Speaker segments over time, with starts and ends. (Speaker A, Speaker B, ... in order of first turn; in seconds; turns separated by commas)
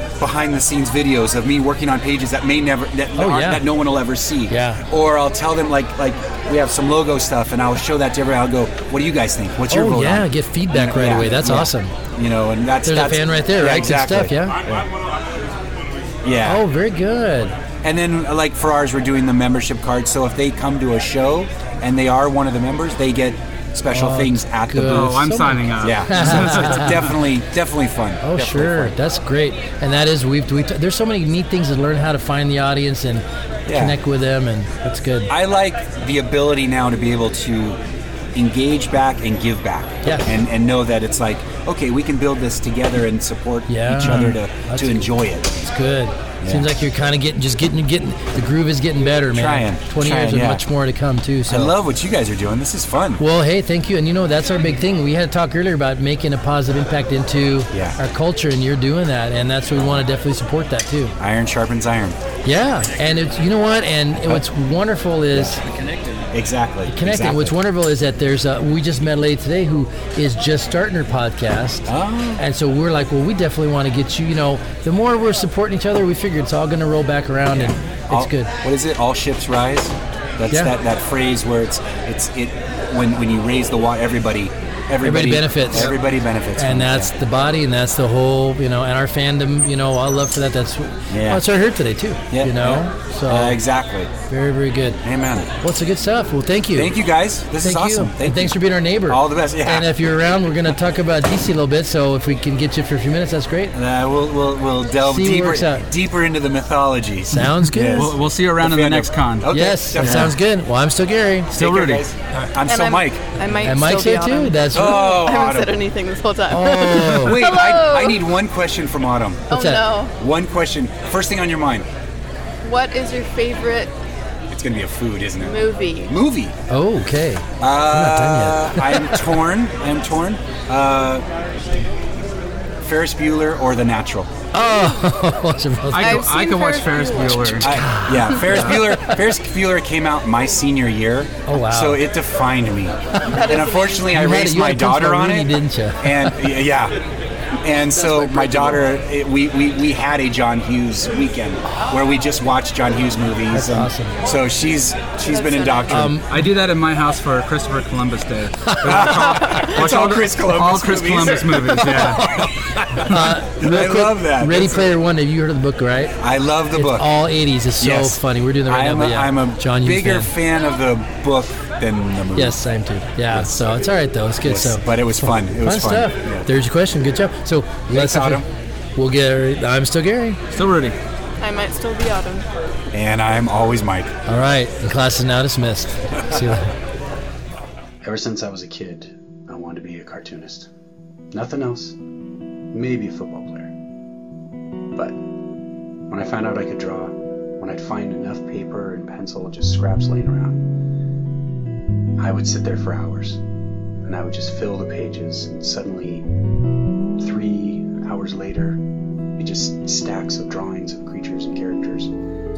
Speaker A: 0.2-14.9, Speaker B: 3.2-3.6, Speaker B: 4.5-4.8, Speaker B: 9.7-11.9, Speaker B: 12.8-14.6, Speaker A: 16.2-16.6, Speaker B: 16.4-17.6, Speaker A: 17.8-28.9, Speaker B: 23.9-27.1, Speaker C: 24.8-27.1, Speaker B: 28.2-35.3, Speaker A: 33.7-34.0, Speaker A: 35.3-37.8, Speaker A: 38.3-45.6, Speaker B: 40.0-40.3, Speaker B: 43.7-51.7, Speaker A: 46.4-46.7, Speaker A: 49.3-50.6, Speaker A: 51.5-53.2, Speaker B: 53.2-61.1, Speaker A: 57.7-58.0, Speaker A: 59.7-60.0, Speaker A: 61.2-62.2, Speaker B: 62.4-65.6, Speaker A: 66.3-67.5, Speaker B: 66.9-78.5, Speaker A: 71.9-72.4, Speaker A: 77.5-87.1, Speaker B: 85.0-86.0, Speaker B: 86.5-93.6, Speaker A: 91.1-91.4, Speaker A: 92.3-94.1, Speaker B: 94.3-95.0, Speaker A: 95.0-95.5, Speaker B: 95.6-97.0, Speaker A: 96.7-98.6, Speaker B: 97.6-103.7, Speaker A: 99.1-99.9, Speaker A: 103.7-110.3, Speaker B: 105.0-105.8, Speaker B: 107.3-108.2, Speaker C: 107.9-110.3, Speaker B: 109.5-111.5, Speaker C: 111.5-112.1, Speaker A: 111.5-113.2, Speaker D: 112.6-118.2, Speaker B: 113.6-115.1, Speaker A: 114.7-115.8, Speaker B: 116.5-117.4, Speaker A: 116.6-119.5, Speaker D: 119.5-120.1, Speaker B: 119.5-119.9, Speaker A: 120.2-121.9, Speaker D: 122.6-123.9, Speaker A: 124.5-126.6, Speaker D: 125.4-126.2, Speaker B: 126.7-129.2, Speaker A: 127.6-131.2, Speaker A: 132.8-134.3, Speaker B: 134.5-136.3, Speaker C: 135.9-137.9, Speaker D: 136.0-137.6, Speaker A: 137.4-145.5, Speaker B: 137.7-139.0, Speaker C: 138.5-138.8, Speaker B: 141.4-142.0, Speaker D: 143.2-144.1, Speaker B: 144.1-146.3, Speaker A: 146.0-147.0, Speaker A: 147.6-156.2, Speaker B: 148.2-148.7, Speaker B: 153.5-154.2, Speaker D: 155.3-156.0, Speaker B: 155.9-156.3, Speaker C: 156.2-162.3, Speaker B: 158.7-159.1, Speaker A: 158.8-164.9, Speaker B: 162.2-162.5, Speaker B: 163.0-166.1, Speaker A: 166.2-167.1, Speaker B: 166.7-170.3, Speaker A: 167.8-172.6, Speaker B: 172.3-178.4, Speaker A: 173.3-173.7, Speaker A: 174.4-176.5, Speaker A: 177.9-178.4, Speaker B: 178.9-180.4, Speaker C: 180.5-181.0, Speaker D: 181.4-182.5, Speaker A: 182.9-184.1, Speaker B: 184.2-186.7, Speaker A: 188.2-189.0, Speaker E: 196.4-197.1, Speaker E: 198.4-200.2, Speaker E: 202.4-203.2, Speaker E: 207.6-208.4, Speaker E: 209.4-211.7